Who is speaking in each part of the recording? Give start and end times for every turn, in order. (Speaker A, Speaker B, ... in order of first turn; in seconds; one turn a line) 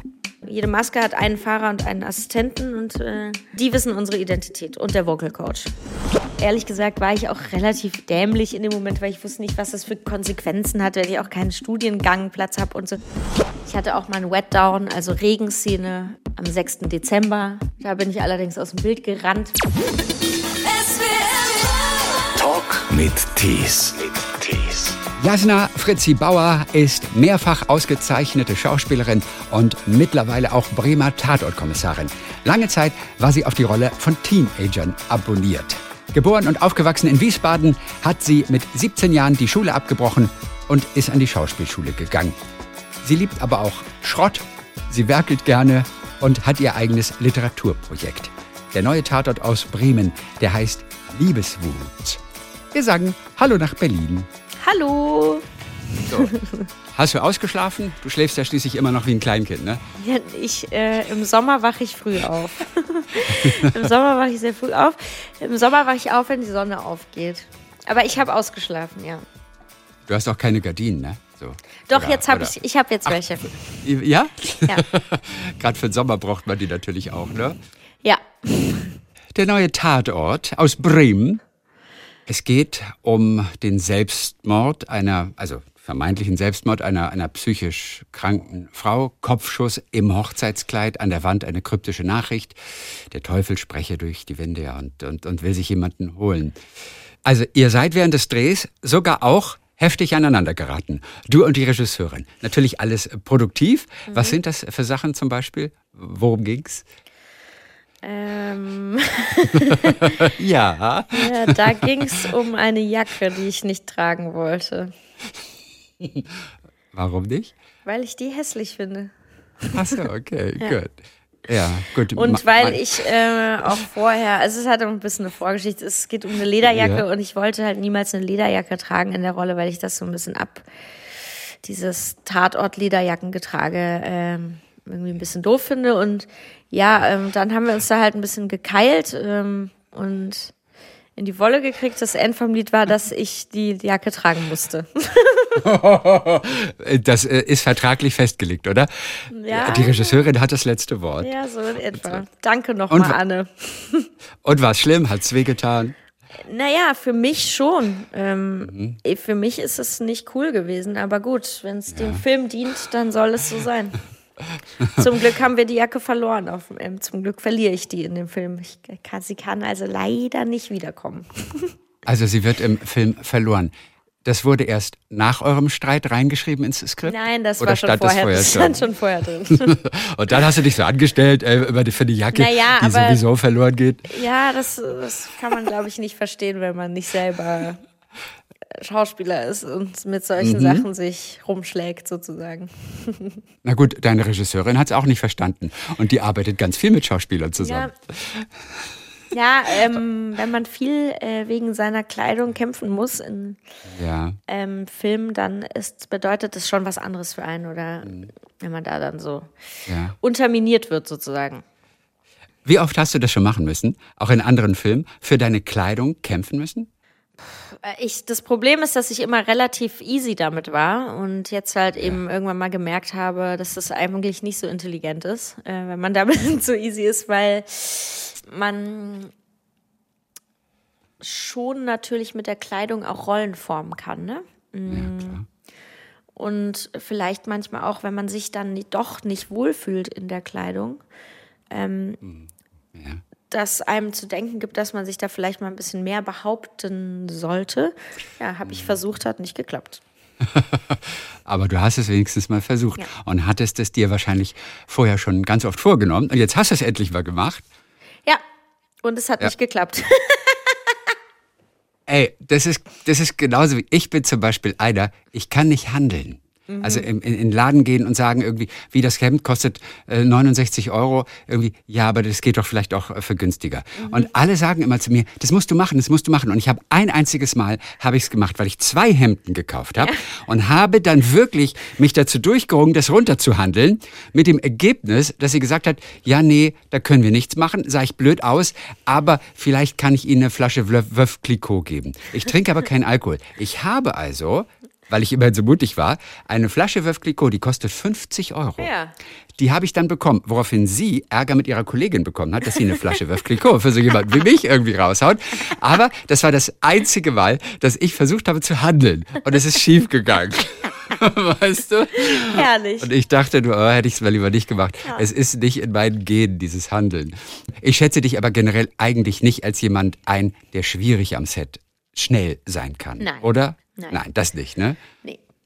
Speaker A: 0.4-5.7
Speaker A: 6.4-13.0
Speaker A: 13.6-19.6
Speaker B: 22.1-25.0
Speaker C: 25.2-42.4
Speaker C: 43.0-54.3
Speaker A: 54.6-56.7
Speaker C: 56.1-56.3
Speaker C: 56.9-59.8
Speaker A: 60.0-69.2
Speaker C: 63.2-63.9
Speaker C: 70.1-73.2
Speaker A: 71.9-73.8
Speaker C: 73.8-77.6
Speaker A: 78.0-79.0
Speaker C: 79.3-81.4
Speaker C: 82.3-96.6
Speaker C: 97.2-106.8
Speaker A: 104.1-104.4
Speaker A: 108.0-110.1
Speaker C: 110.0-112.0
Speaker A: 111.1-114.9
Speaker C: 116.0-116.2
Speaker C: 116.9-117.5
Speaker A: 117.8-120.0
Speaker C: 119.7-121.0
Speaker C: 121.5-122.8
Speaker A: 122.1-130.7
Speaker C: 126.6-127.0
Speaker A: 131.6-140.5
Speaker A: 141.2-145.6
Speaker C: 145.6-151.3
Speaker A: 149.3-150.3
Speaker A: 151.2-154.1
Speaker C: 152.9-153.2
Speaker C: 154.4-155.9
Speaker A: 156.4-164.0
Speaker C: 158.7-159.0
Speaker C: 161.9-162.2
Speaker C: 164.8-165.1
Speaker A: 164.9-171.7
Speaker C: 172.1-173.7
Speaker C: 174.2-178.9
Speaker A: 177.0-179.7
Speaker C: 179.5-184.2
Speaker A: 182.3-183.2
Speaker A: 184.1-187.8
Speaker A: 188.7-193.4
Speaker C: 190.4-190.8
Speaker C: 193.6-198.9
Speaker A: 197.6-197.9
Speaker A: 199.3-203.6
Speaker C: 203.9-204.4
Speaker A: 204.5-209.5
Speaker C: 209.9-210.1
Speaker A: 210.1-211.6
Speaker C: 212.6-216.9
Speaker A: 217.4-229.3
Speaker A: 231.2-235.4
Speaker C: 234.9-235.4
Speaker A: 236.3-241.0
Speaker A: 241.7-242.2
Speaker C: 242.2-243.2
Speaker A: 243.5-250.0
Speaker C: 248.7-248.9
Speaker C: 250.4-257.6
Speaker A: 259.0-260.9
Speaker C: 262.1-298.9
Speaker A: 266.7-267.1
Speaker A: 274.0-274.3
Speaker A: 298.8-299.1
Speaker C: 299.6-325.0
Speaker A: 312.1-313.1
Speaker A: 323.2-324.2